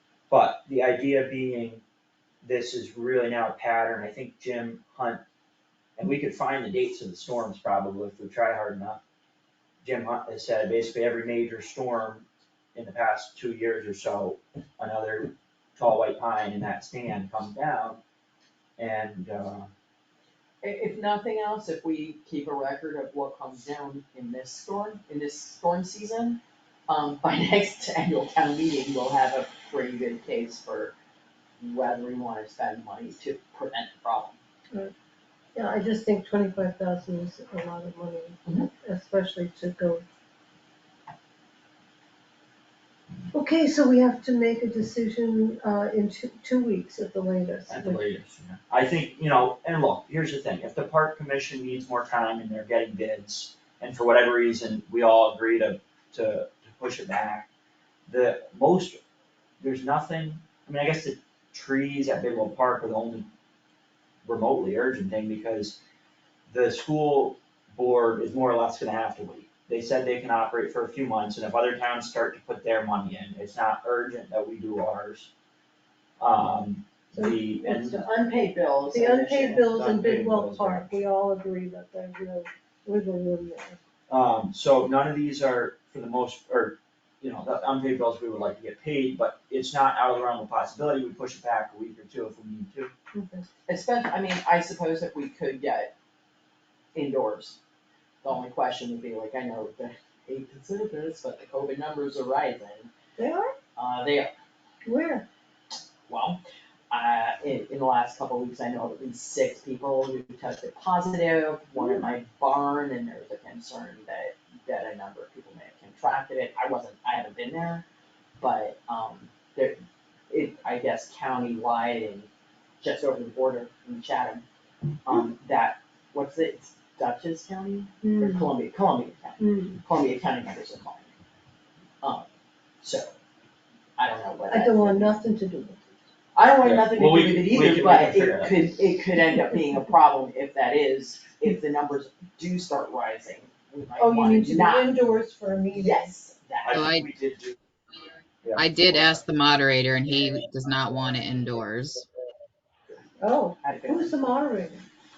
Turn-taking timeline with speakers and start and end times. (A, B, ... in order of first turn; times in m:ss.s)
0:00.3-0:01.8 A
0:02.4-0:05.2 A
0:06.0-0:09.0 A
0:09.8-0:18.0 A
0:18.8-0:19.7 A
0:20.6-0:30.9 B
0:31.6-0:34.4 B
0:35.6-0:40.0 C
0:43.3-0:48.0 C
0:47.7-0:57.5 A
0:58.1-0:59.0 A
0:59.6-1:03.3 A
1:04.2-1:05.8 A
1:06.5-1:15.3 A
1:16.2-1:18.0 A
1:17.1-1:18.1 C
1:18.0-1:19.6 B
1:18.9-1:23.8 C
1:19.5-1:21.0 A
1:24.1-1:32.9 A
1:33.1-1:33.5 C
1:33.7-1:35.9 B
1:36.9-1:37.6 B
1:38.2-1:42.9 B
1:43.2-1:43.5 C
1:43.8-1:44.3 B
1:44.8-1:45.2 C
1:46.1-1:46.4 B
1:46.9-1:57.8 B
1:51.8-1:52.0 C
1:58.4-1:59.8 B
2:00.3-2:02.3 B
2:02.8-2:04.4 B
2:05.0-2:11.1 B
2:08.0-2:08.5 C
2:09.4-2:09.8 C
2:12.0-2:12.3 B
2:12.8-2:13.1 B
2:14.0-2:15.1 B
2:14.5-2:16.0 C
2:16.4-2:25.0 B
2:16.6-2:18.7 A
2:24.0-2:26.1 C
2:25.8-2:26.8 B
2:26.6-2:27.6 A
2:26.7-2:27.1 D
2:28.4-2:29.2 A
2:28.6-2:32.1 D
2:33.2-2:34.8 C
2:33.6-2:34.1 B